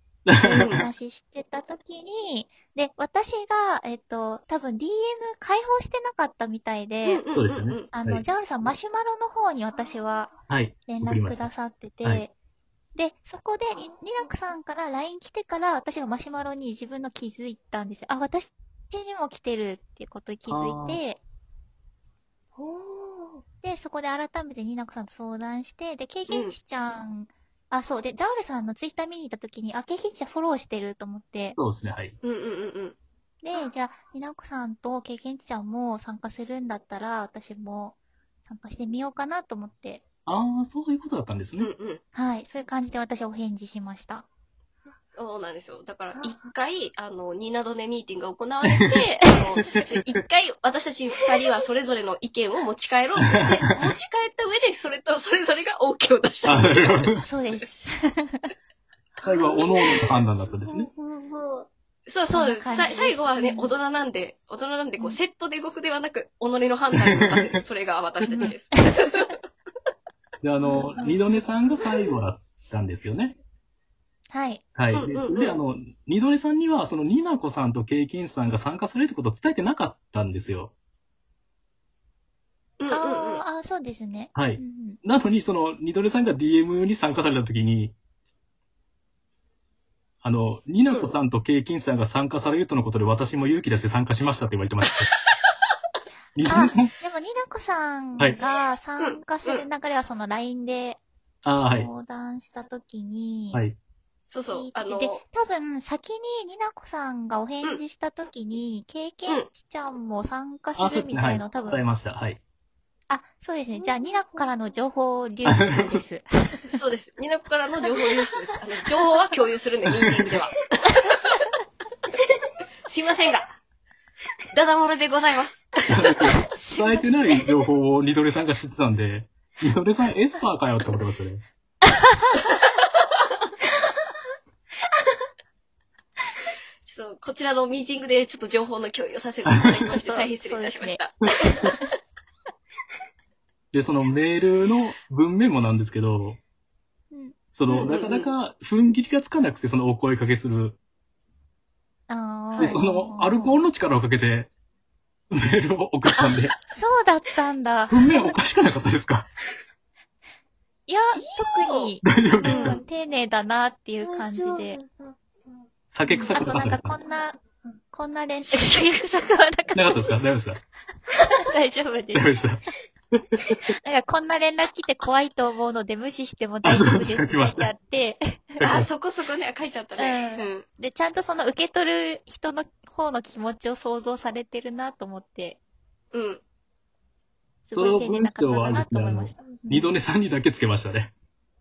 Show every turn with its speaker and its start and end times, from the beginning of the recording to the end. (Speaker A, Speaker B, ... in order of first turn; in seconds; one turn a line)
Speaker A: 0.3-0.8
Speaker B: 0.3-0.9
Speaker C: 0.8-7.2
Speaker B: 7.0-7.9
Speaker A: 7.3-8.2
Speaker C: 7.9-10.3
Speaker A: 10.5-11.5
Speaker C: 10.9-12.3
Speaker C: 12.9-21.2
Speaker A: 20.5-21.0
Speaker D: 22.6-23.4
Speaker C: 23.6-31.6
Speaker B: 26.3-26.6
Speaker A: 31.6-32.1
Speaker B: 32.2-33.0
Speaker C: 33.4-40.0
Speaker A: 40.3-41.7
Speaker B: 41.6-42.0
Speaker C: 42.1-44.3
Speaker B: 45.2-57.2
Speaker A: 56.5-57.2
Speaker C: 57.2-58.5
Speaker D: 59.1-60.1
Speaker A: 59.2-60.9
Speaker D: 60.7-61.7
Speaker B: 62.1-69.4
Speaker C: 62.3-63.7
Speaker A: 67.1-67.4
Speaker A: 70.4-73.4
Speaker D: 70.7-71.2
Speaker C: 74.3-74.7
Speaker A: 74.8-80.7
Speaker B: 74.9-75.6
Speaker B: 82.8-83.4
Speaker C: 82.9-85.0
Speaker A: 84.3-88.0
Speaker A: 90.2-95.1
Speaker B: 90.9-91.1
Speaker A: 96.4-96.9
Speaker C: 96.4-103.6
Speaker B: 99.0-99.6
Speaker A: 101.4-101.9
Speaker B: 104.3-105.2
Speaker C: 104.5-111.8
Speaker A: 110.8-112.4
Speaker C: 113.1-116.7
Speaker D: 113.7-114.8
Speaker A: 115.5-116.0
Speaker B: 116.6-121.5
Speaker B: 122.9-123.5
Speaker B: 124.5-126.1
Speaker A: 125.9-131.4
Speaker C: 126.5-127.1
Speaker C: 131.9-132.2
Speaker B: 136.8-141.2
Speaker C: 139.9-141.9
Speaker A: 143.7-146.4
Speaker C: 147.1-147.4
Speaker A: 147.5-150.8
Speaker B: 147.7-148.3
Speaker C: 152.1-153.6
Speaker A: 152.6-154.5
Speaker A: 155.3-156.5
Speaker C: 156.7-158.1
Speaker A: 157.9-159.3
Speaker C: 160.9-164.8
Speaker B: 161.2-161.9
Speaker A: 162.0-162.8
Speaker B: 162.5-162.8
Speaker D: 164.0-165.7
Speaker A: 165.9-167.0
Speaker C: 166.1-167.4
Speaker D: 166.3-166.6
Speaker C: 167.9-170.1
Speaker B: 168.5-168.8
Speaker A: 169.7-170.6
Speaker C: 171.2-172.3
Speaker A: 172.1-172.6
Speaker A: 173.1-173.6
Speaker C: 173.7-178.6
Speaker A: 176.6-177.7
Speaker A: 178.6-178.9
Speaker B: 178.6-180.7
Speaker C: 180.0-185.6
Speaker B: 186.1-186.4
Speaker C: 187.7-189.9
Speaker A: 187.7-191.1